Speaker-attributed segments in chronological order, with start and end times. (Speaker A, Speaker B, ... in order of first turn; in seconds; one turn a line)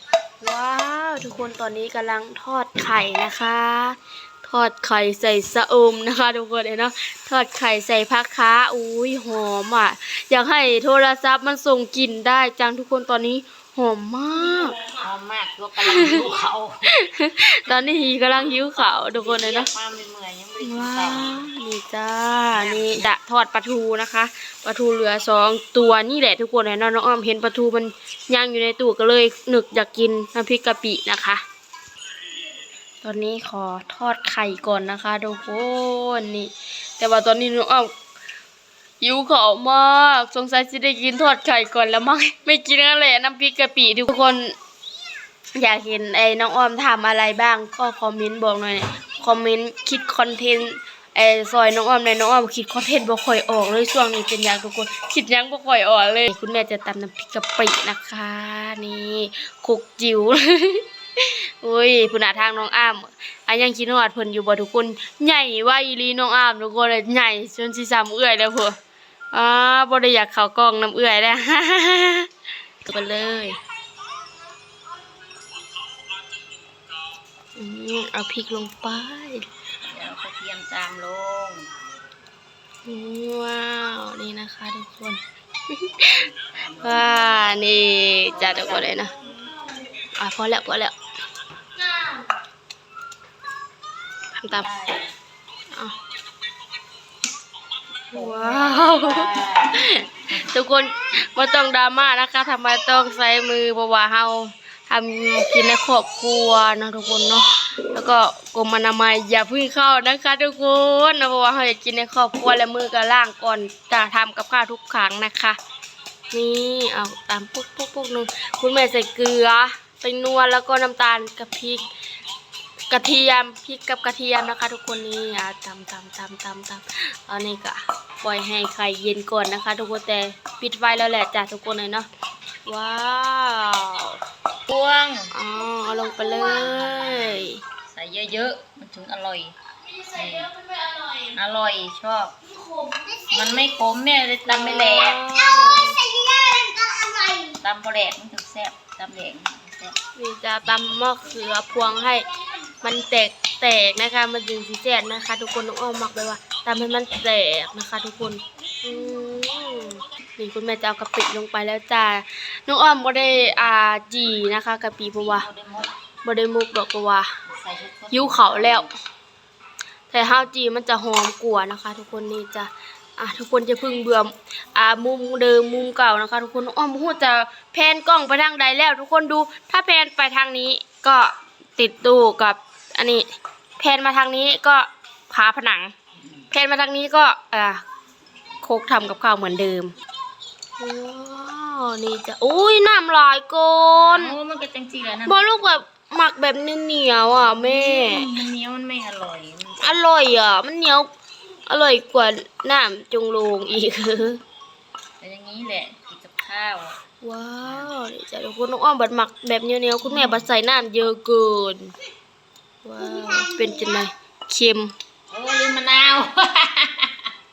Speaker A: 0.4-14.8
Speaker B: 14.8-16.9
Speaker A: 15.8-16.2
Speaker A: 16.9-19.7
Speaker B: 17.7-21.5
Speaker A: 20.6-31.4
Speaker B: 22.5-23.1
Speaker A: 33.0-37.9
Speaker A: 39.0-44.5
Speaker A: 45.5-68.8
Speaker A: 69.3-72.3
Speaker A: 72.8-73.6
Speaker A: 77.6-79.5
Speaker B: 79.8-81.7
Speaker A: 82.8-86.2
Speaker B: 86.5-87.3
Speaker A: 86.8-89.1
Speaker B: 88.0-89.0
Speaker A: 90.2-91.0
Speaker A: 94.3-94.7
Speaker B: 94.6-95.1
Speaker B: 98.1-100.5
Speaker A: 98.1-115.6
Speaker A: 116.3-121.8
Speaker A: 122.9-132.1
Speaker A: 132.7-134.2
Speaker B: 134.7-135.3
Speaker A: 135.3-137.6
Speaker B: 136.4-139.6
Speaker B: 140.1-140.6
Speaker B: 141.2-142.4
Speaker C: 143.0-143.3
Speaker B: 143.3-145.2
Speaker A: 144.5-146.0
Speaker C: 145.6-147.5
Speaker B: 147.6-150.0
Speaker A: 150.2-152.3
Speaker A: 152.8-165.5
Speaker B: 163.1-163.7
Speaker B: 165.2-165.9
Speaker A: 166.2-167.3
Speaker B: 167.5-168.9
Speaker A: 168.1-168.9
Speaker A: 170.1-183.3
Speaker B: 170.2-170.5
Speaker A: 183.8-185.9
Speaker A: 186.5-187.8
Speaker A: 188.6-189.9
Speaker A: 190.8-194.4
Speaker B: 193.9-195.8
Speaker A: 195.3-198.3
Speaker B: 197.2-200.0
Speaker A: 199.8-201.1
Speaker A: 201.7-204.4
Speaker B: 205.2-207.0
Speaker A: 207.2-211.9
Speaker B: 207.6-207.9
Speaker B: 210.0-210.5
Speaker A: 212.8-214.9
Speaker C: 213.2-213.9
Speaker B: 215.3-217.3